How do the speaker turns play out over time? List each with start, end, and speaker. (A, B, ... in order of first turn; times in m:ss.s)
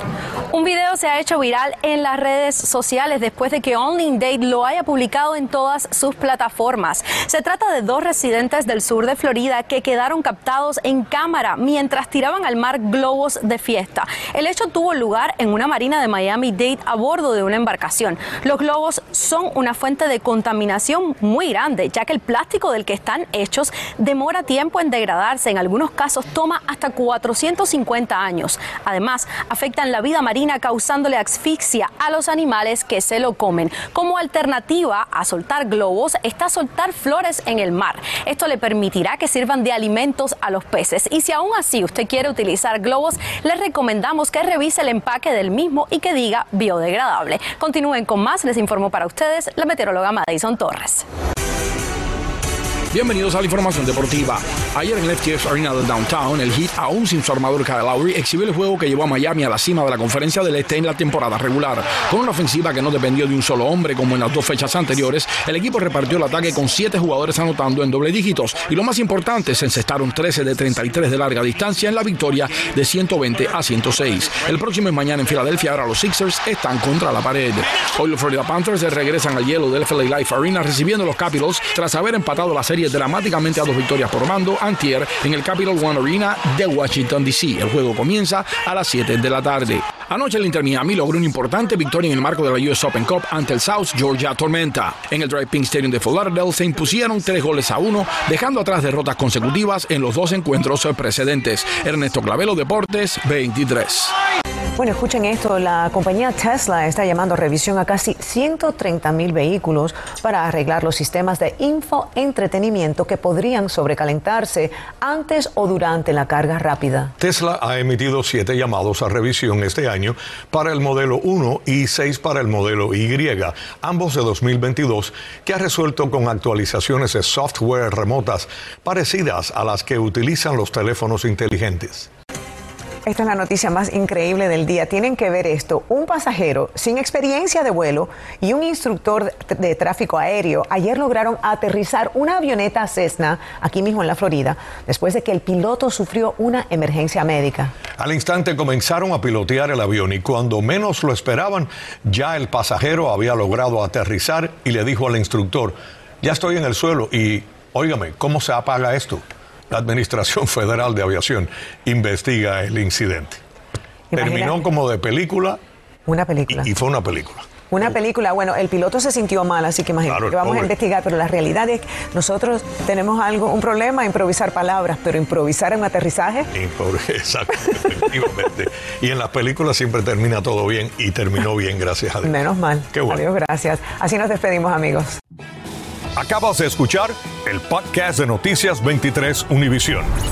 0:00.5-0:51.0 A
0:52.9-1:44.1 B
1:44.8-1:57.1 C
1:57.2-2:12.1 D
2:13.0-2:27.7 C
2:28.0-2:43.4 D
2:44.1-2:44.6 C
2:44.1-2:45.6 D
2:46.1-2:46.7 C
2:46.5-2:47.5 D
2:47.7-2:56.5 C
2:50.0-2:50.7 D
2:56.5-3:02.4 D
3:02.2-3:05.2 C
3:02.9-3:03.2 D
3:06.1-3:10.1 D